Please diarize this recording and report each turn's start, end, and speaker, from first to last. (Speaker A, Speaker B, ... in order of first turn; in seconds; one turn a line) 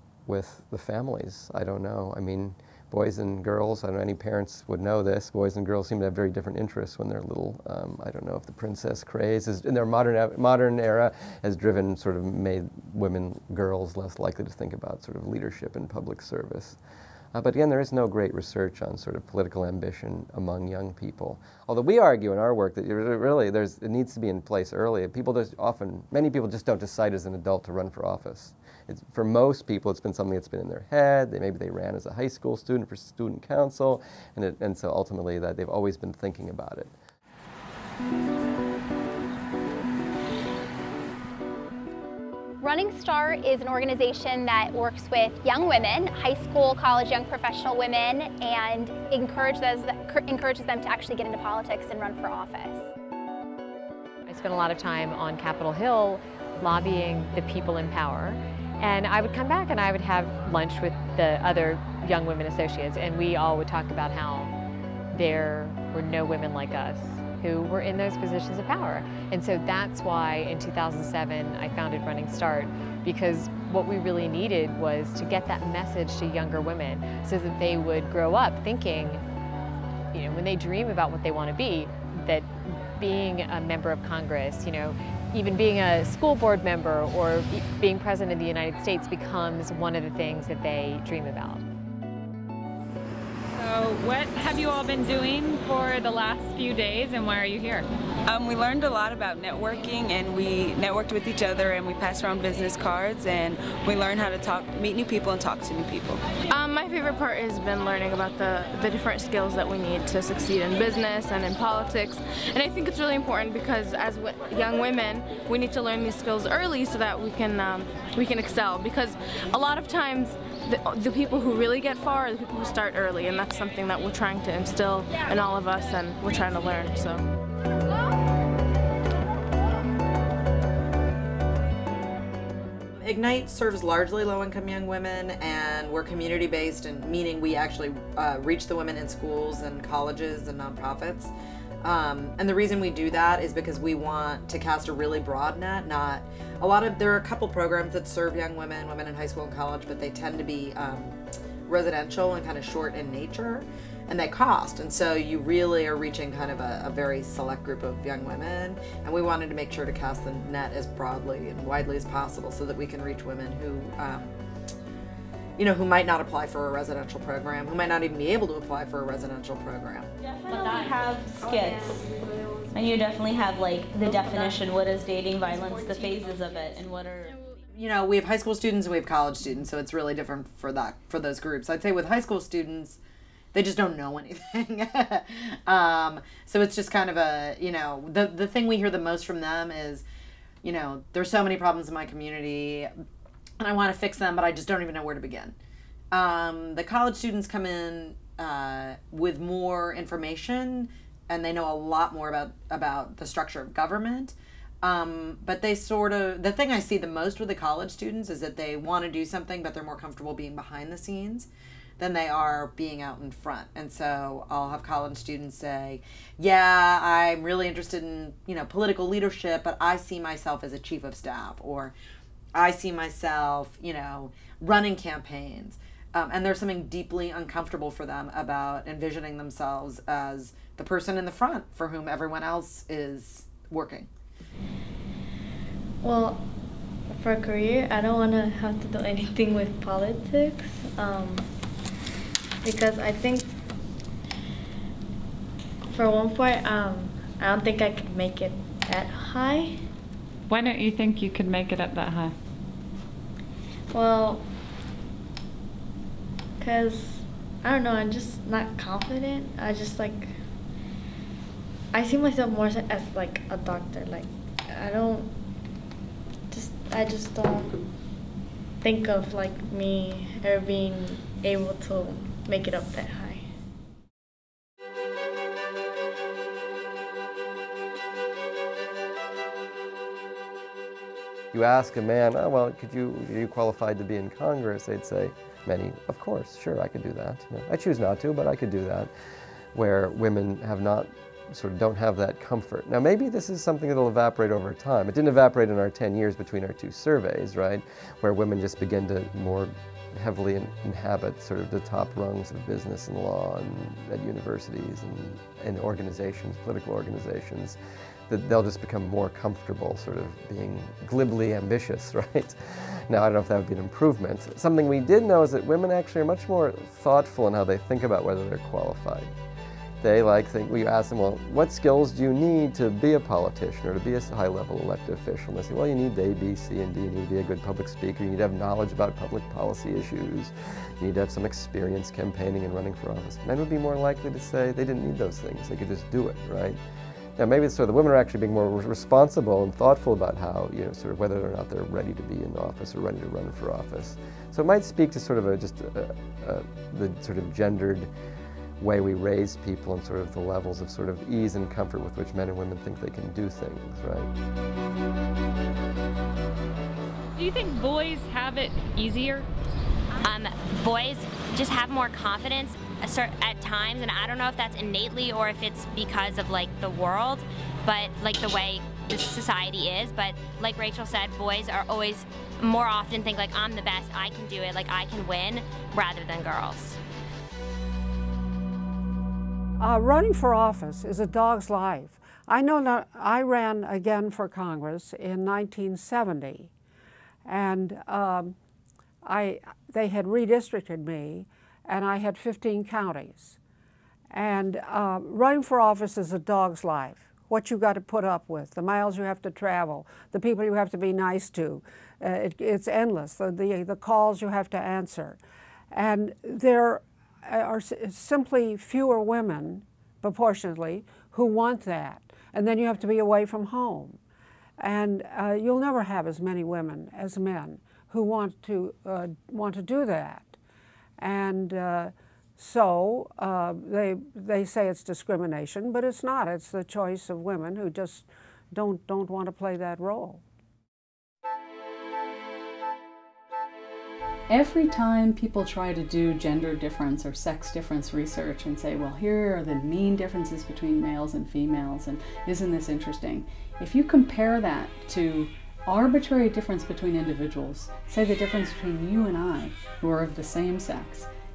Speaker A: 0.2-16.8
Speaker A: 17.3-36.9
Speaker B: 42.6-52.9
Speaker C: 54.2-64.5
Speaker C: 65.1-79.2
Speaker C: 80.1-91.6
Speaker D: 93.5-97.8
Speaker E: 98.2-106.2
Speaker F: 106.5-127.2
Speaker G: 133.0-164.3
Speaker G: 165.6-170.1
Speaker H: 170.3-172.1
Speaker I: 170.5-172.7
Speaker H: 172.7-177.4
Speaker I: 173.9-174.6
Speaker I: 175.5-176.1
Speaker G: 177.7-183.0
Speaker G: 183.5-190.0
Speaker G: 190.6-192.9
Speaker G: 193.6-195.6
Speaker G: 196.1-211.5
Speaker G: 212.0-221.9
Speaker G: 222.5-234.1
Speaker I: 236.0-241.8
Speaker I: 242.6-243.9
Speaker I: 245.8-249.9
Speaker D: 250.5-252.3
Speaker I: 253.9-254.5
Speaker I: 256.6-260.7
Speaker I: 261.9-265.7
Speaker I: 266.5-273.6
Speaker A: 281.5-289.1
Speaker A: 289.7-307.8
Speaker A: 308.3-319.3
Speaker A: 320.0-336.8
Speaker A: 337.4-348.1
Speaker A: 348.8-354.3
Speaker D: 357.4-359.5
Speaker J: 360.2-377.0
Speaker K: 379.8-386.7
Speaker K: 387.4-388.5
Speaker K: 389.2-393.6
Speaker K: 394.3-405.4
Speaker K: 405.9-414.2
Speaker K: 414.8-420.6
Speaker K: 421.2-430.4
Speaker L: 434.5-451.3